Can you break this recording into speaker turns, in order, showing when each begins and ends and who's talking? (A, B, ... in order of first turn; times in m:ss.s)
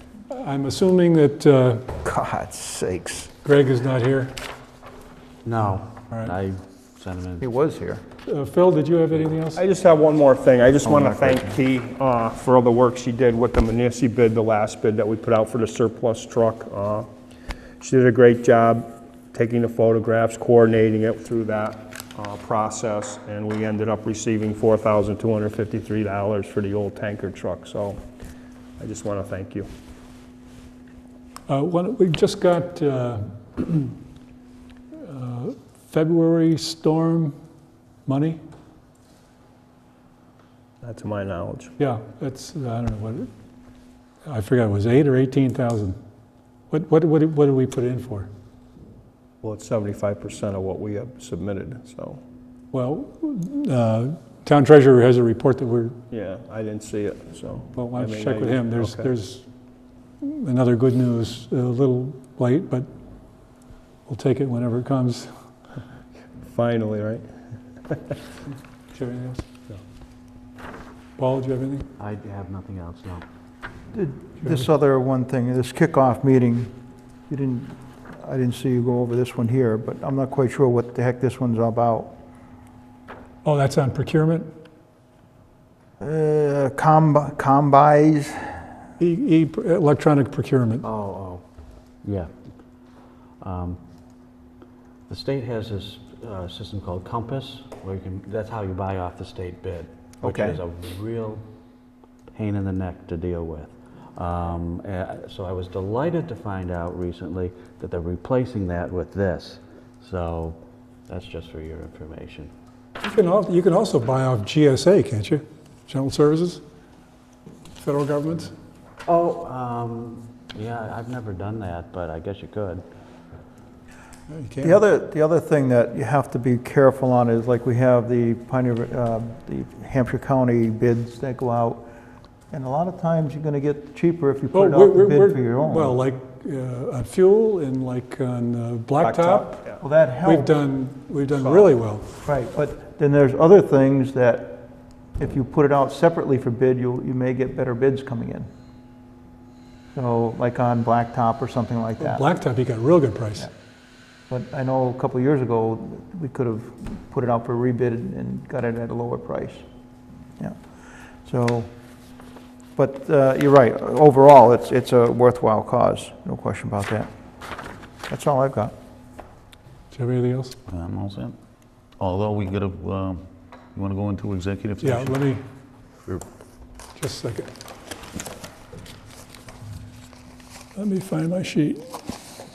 0:00.3-0:01.9 A
0:02.0-0:03.3 B
0:03.4-0:04.4 A
0:05.4-0:07.5 C
0:07.4-0:08.0 B
0:08.3-0:09.7 A
0:09.5-0:17.1 D
0:10.8-0:11.6 B
0:17.8-0:28.0 D
0:28.8-0:29.7 D
0:31.5-0:33.9 A
0:34.9-0:37.4 A
0:38.1-0:38.4 A
0:40.8-0:41.7 D
0:41.8-0:43.3 A
0:44.2-0:46.0 A
0:46.7-0:48.3 A
0:49.4-0:52.2 D
0:52.7-0:56.0 A
0:56.1-0:59.1 D
0:57.7-0:59.5 A
1:00.2-1:02.9 A
1:04.1-1:05.3 A
1:06.4-1:07.2 D
1:07.9-1:08.2 D
1:08.9-1:09.5 A
1:11.2-1:11.9 A
1:12.0-1:13.2 C
1:13.9-1:16.7 B
1:17.3-1:22.2 B
1:23.4-1:24.5 A
1:26.0-1:28.7 B
1:29.0-1:30.9 A
1:30.8-1:31.4 C
1:32.0-1:32.3 C
1:33.4-1:33.8 C
1:35.1-1:41.4 C
1:40.2-1:40.6 B
1:42.3-1:52.5 C
1:53.0-1:56.6 A
1:57.8-1:58.5 A
1:59.0-2:02.8 C
2:04.3-2:04.8 A
2:04.6-2:11.9 B
2:12.5-2:16.0 B
2:14.5-2:19.6 A
2:19.0-2:19.8 D
2:19.8-2:20.5 B
2:20.2-2:22.1 A
2:21.4-2:21.7 D
2:22.2-2:28.5 B
2:30.0-2:32.3 B
2:32.0-2:33.5 A
2:34.3-2:39.6 B
2:41.2-2:41.7 B
2:42.8-2:47.1 B
2:48.1-2:48.7 B
2:49.9-2:50.6 A
2:50.7-2:51.4 E
2:52.0-2:55.2 E
2:54.8-2:55.4 A
2:57.0-2:57.5 A
3:00.8-3:02.0 A